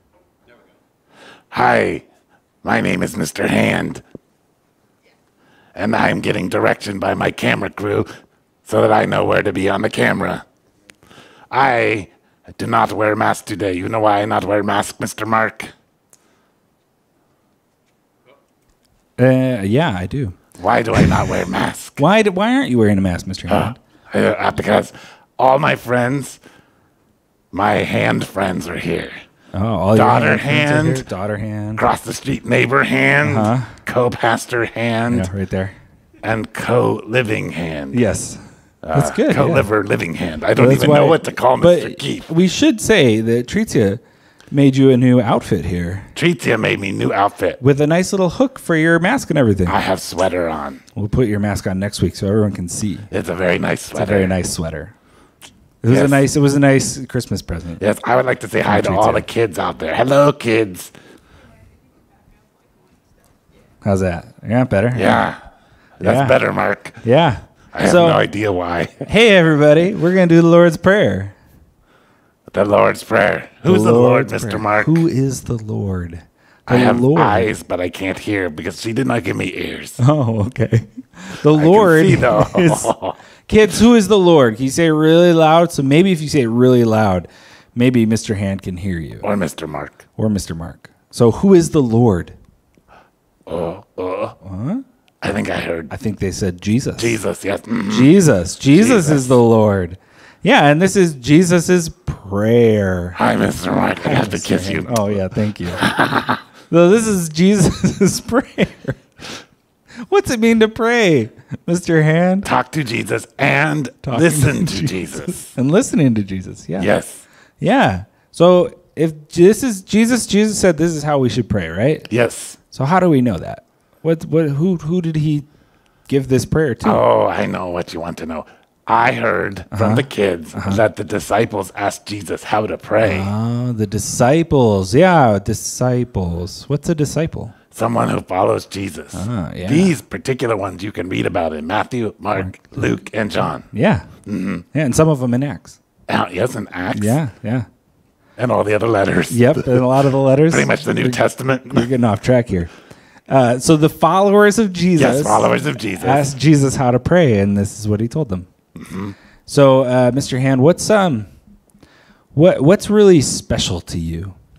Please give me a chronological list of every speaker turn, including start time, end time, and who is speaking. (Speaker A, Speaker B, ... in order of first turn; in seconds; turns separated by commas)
Speaker A: 1.5-2.0, Speaker A: 2.6-4.0, Speaker A: 5.8-8.1, Speaker A: 8.7-10.4, Speaker A: 11.5-15.7, Speaker B: 19.2-20.4, Speaker A: 20.6-22.0, Speaker B: 20.9-21.2, Speaker B: 22.0-23.8, Speaker A: 23.5-26.4, Speaker A: 27.5-29.2, Speaker B: 29.5-31.9, Speaker A: 29.9-31.1, Speaker A: 31.8-35.3, Speaker B: 33.2-33.7, Speaker B: 35.1-35.7, Speaker A: 36.2-38.0, Speaker B: 37.9-38.4, Speaker A: 38.8-42.3, Speaker B: 38.9-39.7, Speaker B: 40.6-46.1, Speaker A: 46.1-47.6, Speaker B: 47.6-49.8, Speaker A: 49.7-50.8, Speaker B: 51.0-53.1, Speaker A: 53.1-54.4, Speaker B: 53.9-54.9, Speaker B: 55.8-57.8, Speaker A: 55.9-56.2, Speaker A: 57.8-60.9, Speaker B: 58.7-59.3, Speaker B: 63.8-65.3, Speaker A: 64.9-65.4, Speaker A: 66.0-67.0, Speaker B: 66.0-66.4, Speaker B: 67.0-68.2, Speaker A: 67.8-69.0, Speaker B: 69.0-71.3, Speaker A: 72.5-75.0, Speaker B: 73.7-77.5, Speaker A: 76.7-80.0, Speaker B: 80.0-82.9, Speaker A: 81.5-83.2, Speaker B: 83.5-89.3, Speaker A: 89.2-90.0, Speaker B: 90.2-92.3, Speaker A: 93.5-94.3, Speaker B: 94.4-94.8, Speaker A: 95.2-95.9, Speaker B: 95.9-97.2, Speaker A: 97.0-98.1, Speaker B: 97.9-103.2, Speaker A: 98.7-99.4, Speaker A: 103.2-105.1, Speaker B: 104.0-105.9, Speaker A: 105.8-106.4, Speaker B: 106.7-109.3, Speaker B: 110.1-112.5, Speaker A: 112.4-115.5, Speaker B: 114.1-116.9, Speaker A: 116.8-117.2, Speaker B: 117.6-122.1, Speaker A: 122.1-122.6, Speaker B: 122.7-125.5, Speaker B: 126.1-127.0, Speaker A: 126.8-133.3, Speaker B: 129.7-130.8, Speaker B: 133.0-137.6, Speaker A: 137.7-143.7, Speaker B: 139.1-139.9, Speaker B: 143.7-144.1, Speaker A: 144.3-144.7, Speaker B: 144.7-145.8, Speaker A: 146.1-147.2, Speaker B: 146.9-147.7, Speaker A: 148.4-149.8, Speaker B: 149.3-152.7, Speaker A: 150.5-151.9, Speaker B: 153.3-158.5, Speaker A: 155.0-156.3, Speaker A: 158.8-159.2, Speaker B: 159.5-161.3, Speaker B: 162.3-164.4